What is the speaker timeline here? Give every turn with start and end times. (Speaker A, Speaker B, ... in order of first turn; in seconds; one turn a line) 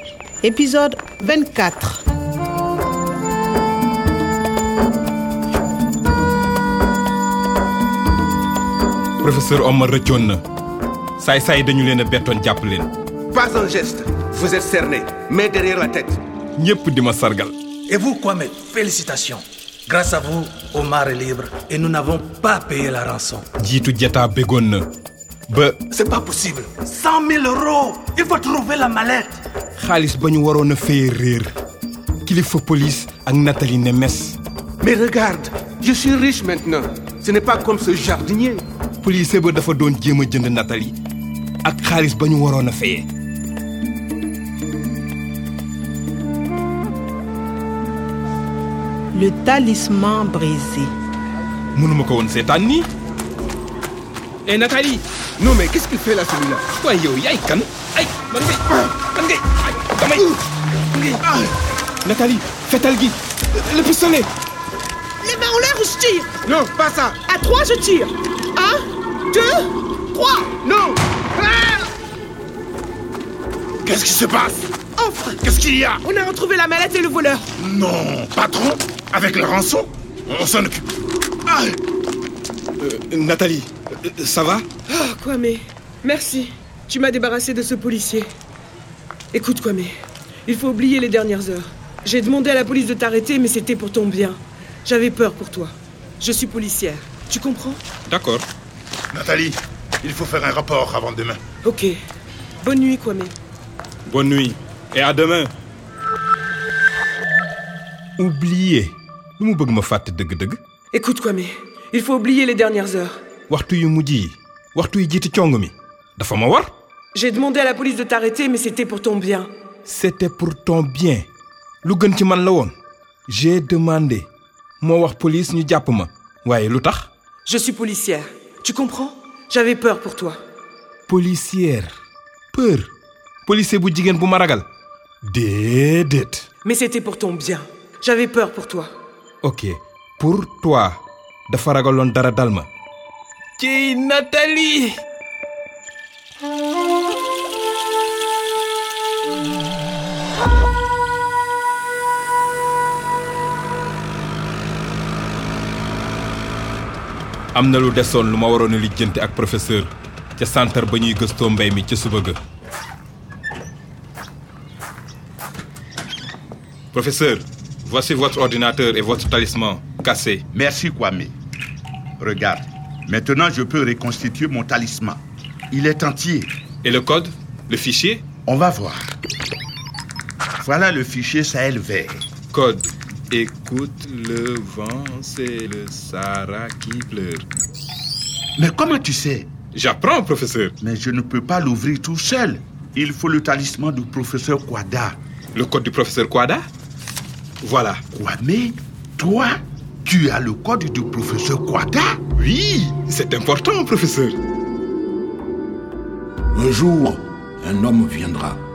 Speaker A: 0.4-2.0
Speaker B: 9.2-10.4
Speaker B: 11.2-12.9
Speaker C: 13.3-16.2
Speaker B: 16.6-17.6
Speaker D: 17.9-23.5
Speaker B: 23.6-24.9
Speaker B: 25.5-25.8
Speaker D: 25.9-29.4
Speaker B: 29.8-31.5
Speaker B: 32.2-34.4
Speaker C: 34.8-38.6
Speaker B: 39.0-41.0
Speaker B: 41.6-43.1
Speaker A: 49.1-50.9
Speaker B: 51.7-52.9
Speaker B: 54.5-55.0
Speaker C: 55.4-56.6
Speaker B: 56.6-60.4
Speaker B: 62.0-64.3
Speaker E: 65.2-66.4
Speaker C: 66.4-67.2
Speaker E: 67.2-68.8
Speaker E: 69.3-70.9
Speaker F: 73.8-74.7
Speaker E: 75.0-75.3
Speaker F: 75.5-76.0
Speaker E: 76.0-77.5
Speaker F: 77.6-80.8
Speaker B: 82.8-84.7
Speaker E: 84.9-88.3
Speaker E: 89.3-89.9
Speaker E: 90.5-97.8
Speaker B: 98.1-98.5
Speaker F: 99.1-101.4
Speaker E: 101.6-102.0
Speaker E: 102.6-103.3
Speaker B: 104.0-105.5
Speaker B: 108.2-110.6
Speaker E: 110.9-113.2
Speaker B: 113.5-116.7
Speaker E: 117.1-119.5
Speaker B: 119.8-121.3
Speaker B: 121.8-122.7
Speaker B: 123.3-124.3
Speaker B: 124.8-127.1
Speaker E: 127.5-130.4
Speaker B: 131.1-131.9
Speaker B: 132.5-132.9
Speaker B: 133.4-134.7
Speaker B: 135.2-136.5
Speaker E: 136.7-138.9
Speaker B: 139.4-142.7
Speaker B: 143.6-145.0
Speaker B: 157.5-162.4
Speaker B: 166.9-170.4
Speaker F: 170.5-171.3
Speaker F: 172.2-176.5
Speaker B: 176.8-178.2
Speaker F: 178.5-179.1
Speaker F: 180.6-182.3
Speaker B: 182.5-187.5
Speaker F: 188.6-189.5
Speaker B: 189.7-190.8
Speaker F: 190.8-195.2
Speaker B: 195.6-196.7
Speaker B: 197.6-198.0
Speaker F: 198.1-202.2
Speaker B: 202.4-204.4
Speaker G: 206.5-208.6